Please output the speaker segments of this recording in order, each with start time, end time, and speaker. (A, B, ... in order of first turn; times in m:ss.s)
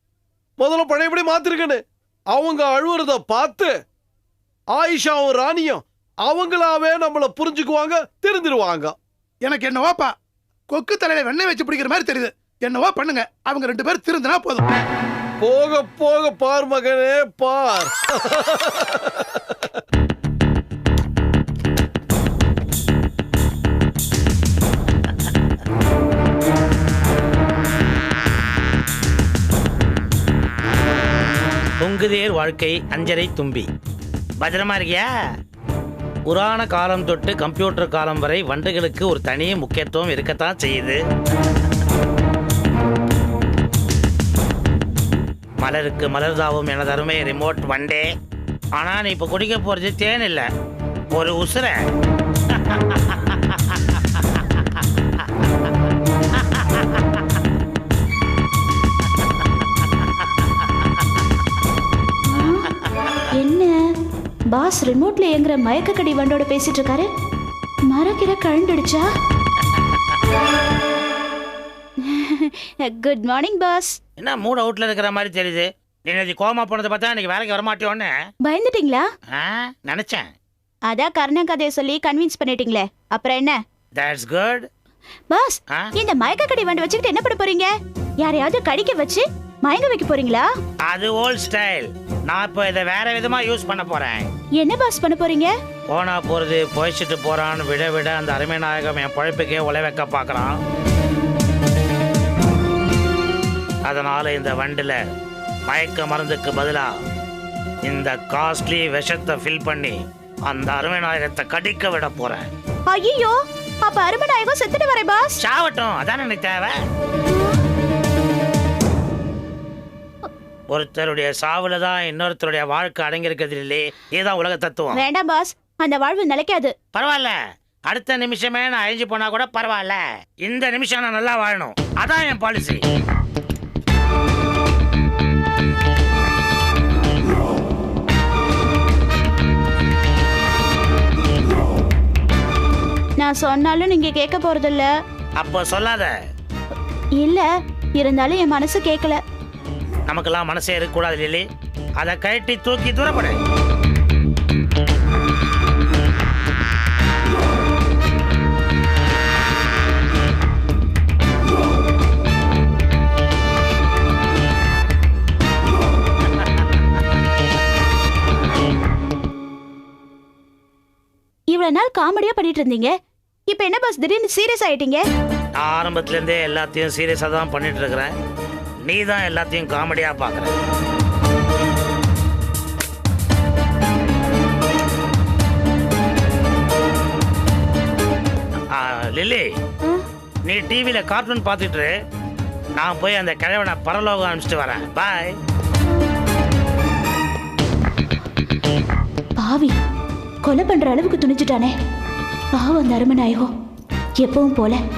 0:00.6-0:03.7 A
0:04.7-0:08.9 A
0:09.4-0:10.1 B
0:10.7-0:14.7 B
0:15.4-0:19.1 A
0:31.8-0:33.7 C
0:34.4-0:35.1 C
0:36.3-0:41.0 C
0:45.6-0:48.0 C
0:48.8-0:50.4 C
0:51.1-0:51.8 C
0:52.5-0:53.7 C
1:02.3-1:02.6 D
1:03.3-1:03.7 D
1:04.5-1:07.1 D
1:07.9-1:09.1 D
1:12.0-1:14.0 D
1:14.2-1:18.1 C
1:18.4-1:19.0 D
1:19.3-1:20.2 C
1:20.9-1:23.6 D
1:23.9-1:24.7 C
1:25.3-1:27.7 D
1:28.2-1:30.5 D
1:30.9-1:34.3 C
1:34.6-1:35.5 D
1:35.9-1:40.6 C
1:43.8-1:45.0 C
1:45.7-1:46.9 C
1:47.8-1:52.4 C
1:52.9-1:55.4 D
1:55.4-1:56.8 C
2:00.7-2:05.0 C
2:04.9-2:06.7 D
2:06.9-2:07.4 C
2:07.9-2:12.8 C
2:23.2-2:24.9 D
2:25.4-2:26.1 C
2:28.0-2:29.2 D
2:30.1-2:31.4 C
2:32.0-2:33.4 C
2:51.5-2:52.9 D
2:53.5-2:55.0 D
2:55.6-2:58.1 C
2:58.8-3:00.5 C
3:08.7-3:09.5 C
3:10.4-3:11.9 C
3:12.8-3:15.3 C
3:19.4-3:19.7 D
3:20.4-3:21.7 D
3:22.5-3:23.5 D
3:24.2-3:24.8 D